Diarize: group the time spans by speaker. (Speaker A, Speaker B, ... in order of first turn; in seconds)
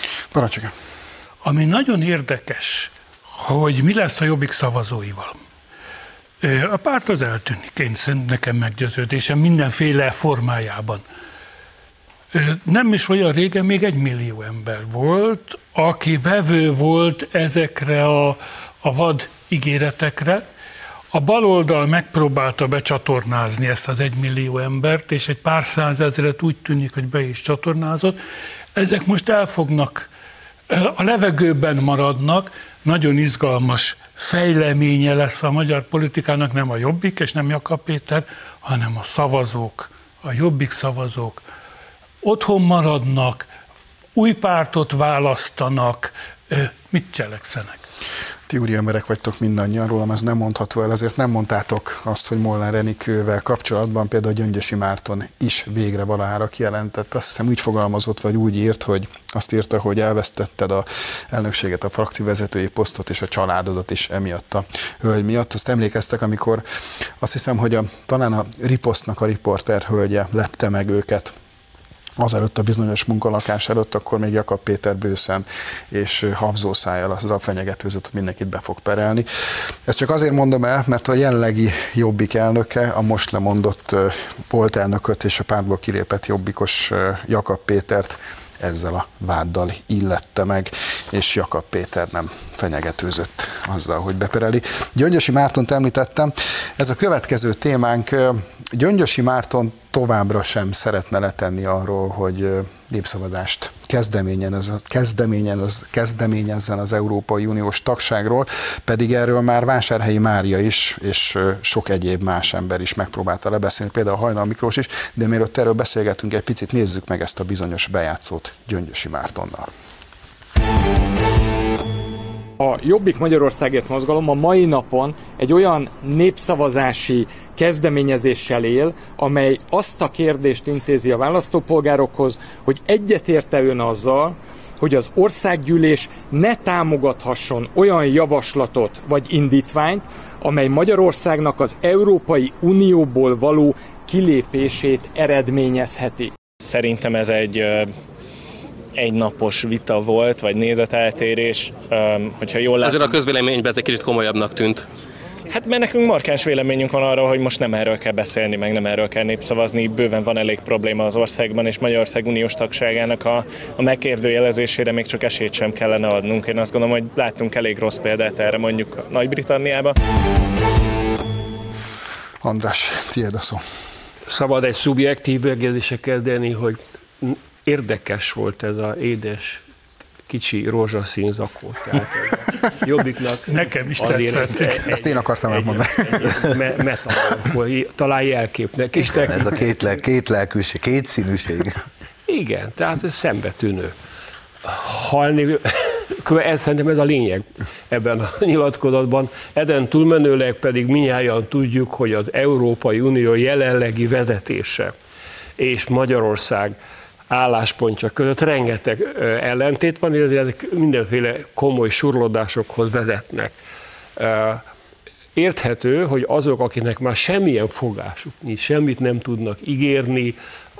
Speaker A: 0.3-0.7, 48.5-71.4, 72.2-119.7, 172.4-173.6, 184.9-186.6
Speaker B: 1.4-5.4, 6.4-11.0, 12.3-20.4, 21.1-28.2, 28.8-30.1, 30.7-41.4, 42.2-43.5, 44.2-47.8, 183.5-184.9
Speaker C: 122.6-146.3
Speaker D: 146.6-147.9, 149.0-153.2, 155.5-169.9
Speaker E: 152.8-154.9
Speaker F: 174.3-179.6, 180.3-189.7, 192.3-193.9, 194.6-204.9, 205.6-206.8, 207.3-213.5, 214.2-214.6, 215.3-220.4
Speaker G: 189.2-191.8